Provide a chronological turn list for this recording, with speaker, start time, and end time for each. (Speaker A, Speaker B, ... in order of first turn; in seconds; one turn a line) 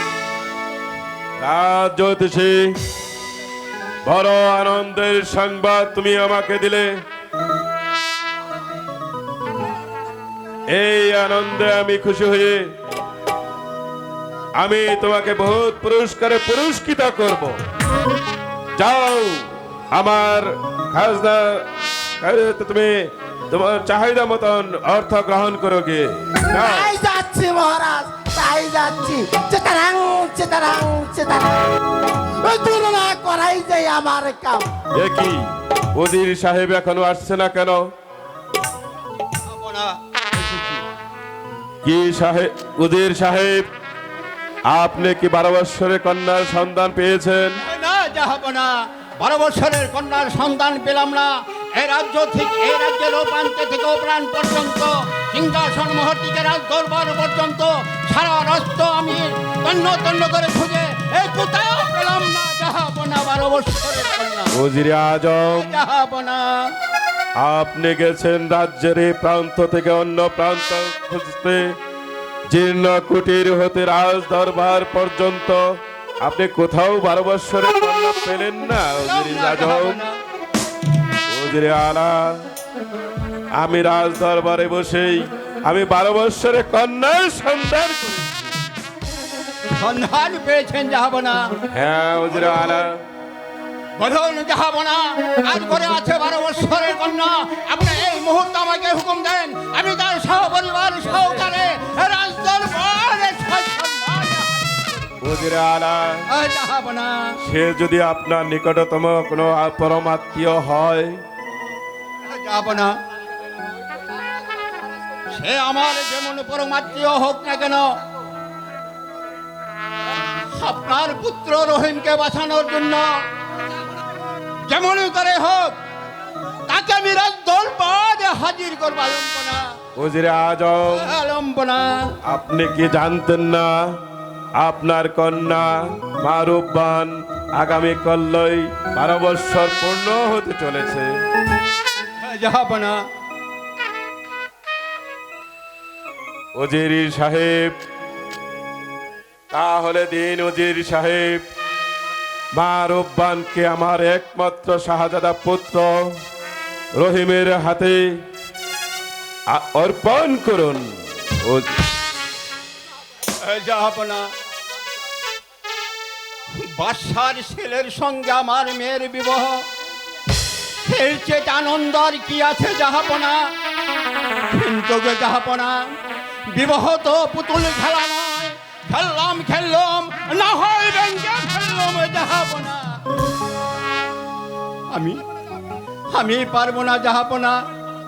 Speaker A: 1.4-2.8
Speaker A: 4.0-6.9
Speaker A: 10.7-12.7
Speaker A: 14.6-17.6
Speaker A: 18.8-21.6
Speaker A: 22.2-22.9
Speaker A: 23.5-26.9
Speaker B: 26.5-31.7
Speaker B: 32.4-34.6
Speaker A: 34.9-37.8
Speaker C: 39.5-40.8
Speaker A: 41.8-43.7
Speaker A: 44.7-47.6
Speaker C: 47.6-64.5
Speaker A: 64.5-65.7
Speaker C: 65.6-66.5
Speaker A: 67.4-71.6
Speaker A: 72.5-75.6
Speaker A: 76.2-80.0
Speaker C: 79.0-80.1
Speaker A: 81.3-82.4
Speaker A: 83.5-88.5
Speaker C: 89.7-91.5
Speaker A: 91.7-93.0
Speaker C: 94.0-105.0
Speaker A: 105.2-106.2
Speaker C: 106.3-107.3
Speaker A: 107.4-111.2
Speaker C: 112.2-112.9
Speaker C: 115.3-118.0
Speaker C: 120.5-123.2
Speaker C: 124.7-125.8
Speaker C: 126.7-129.7
Speaker A: 129.9-131.1
Speaker C: 130.9-132.1
Speaker A: 132.2-133.7
Speaker A: 134.6-141.1
Speaker C: 142.2-143.0
Speaker A: 146.6-147.7
Speaker A: 149.5-151.4
Speaker A: 152.6-156.0
Speaker A: 156.9-158.1
Speaker A: 159.5-161.8
Speaker C: 163.4-164.3
Speaker C: 166.7-169.6
Speaker C: 170.8-173.4
Speaker C: 174.5-175.8
Speaker C: 176.5-183.0
Speaker C: 184.9-185.2
Speaker C: 186.1-187.6